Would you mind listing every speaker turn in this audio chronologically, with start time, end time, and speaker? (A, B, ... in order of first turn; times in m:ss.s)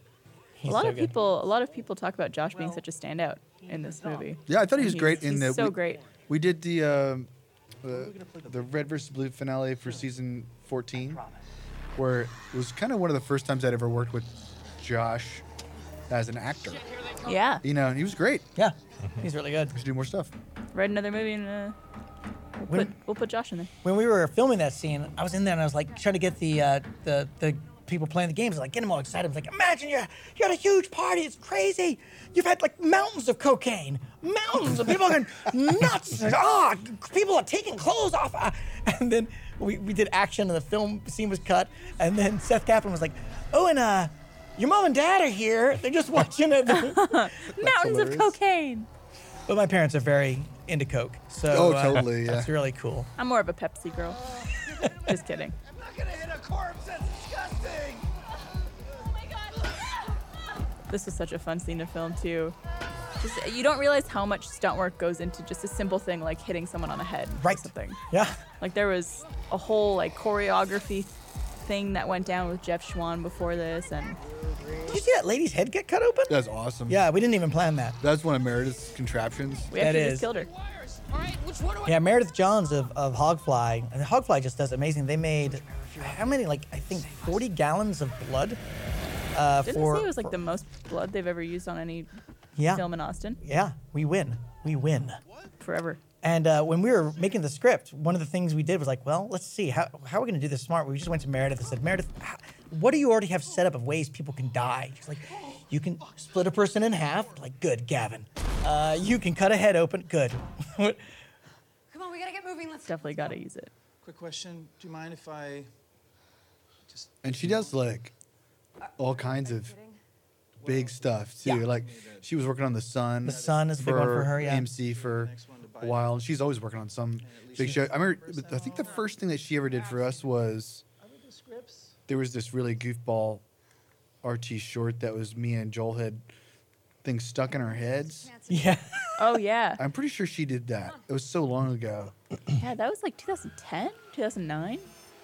0:00.6-0:01.1 A
0:00.7-0:06.0 B
0:02.5-0:02.8 C
0:03.6-0:04.4 C
0:04.5-0:07.3 D
0:07.8-0:11.2 D
0:07.9-0:08.7 C
0:11.0-0:11.5 C
0:12.0-0:15.4 D
0:16.1-0:16.9 D
0:17.2-0:17.6 B
0:17.6-0:18.5 D
0:18.6-0:19.8 A
0:19.7-0:20.3 D
0:20.7-0:21.8 B
0:22.6-0:23.7 B
0:23.8-0:47.2 A
0:46.7-0:48.9 B
0:47.6-0:48.4 D
0:49.5-0:53.1 A
0:51.5-0:52.5 D
0:53.2-0:54.3 B
0:55.0-0:55.6 B
0:55.6-0:58.1 C
1:00.9-1:02.6 B
1:03.2-1:08.0 B
1:07.4-1:08.4 A
1:08.6-1:11.1 B
1:11.6-1:14.2 B
1:14.9-1:18.0 A
1:16.3-1:17.0 D
1:18.0-1:19.7 D
1:19.7-1:20.5 B
1:19.8-1:20.3 A
1:21.8-1:28.6 A
1:25.4-1:27.4 C
1:29.3-1:30.3 A
1:29.7-1:32.1 B
1:32.6-1:32.8 A
1:32.7-1:33.4 B
1:33.4-1:35.2 A
1:35.6-1:36.0 B
1:36.2-1:51.0 A
1:51.9-1:53.4 E
1:52.9-1:53.7 B
1:54.0-1:55.6 F
1:57.2-1:58.1 D
1:58.8-2:00.0 E
1:59.0-1:59.8 D
2:00.6-2:10.8 D
2:03.2-2:04.7 A
2:05.1-2:05.9 F
2:07.3-2:08.6 F
2:11.2-2:11.7 F
2:12.1-2:13.4 D
2:14.2-2:16.3 D
2:17.0-2:18.3 D
2:17.5-2:19.2 E
2:18.5-2:19.3 A
2:19.2-2:19.8 B
2:19.8-2:22.1 D
2:22.6-2:24.9 B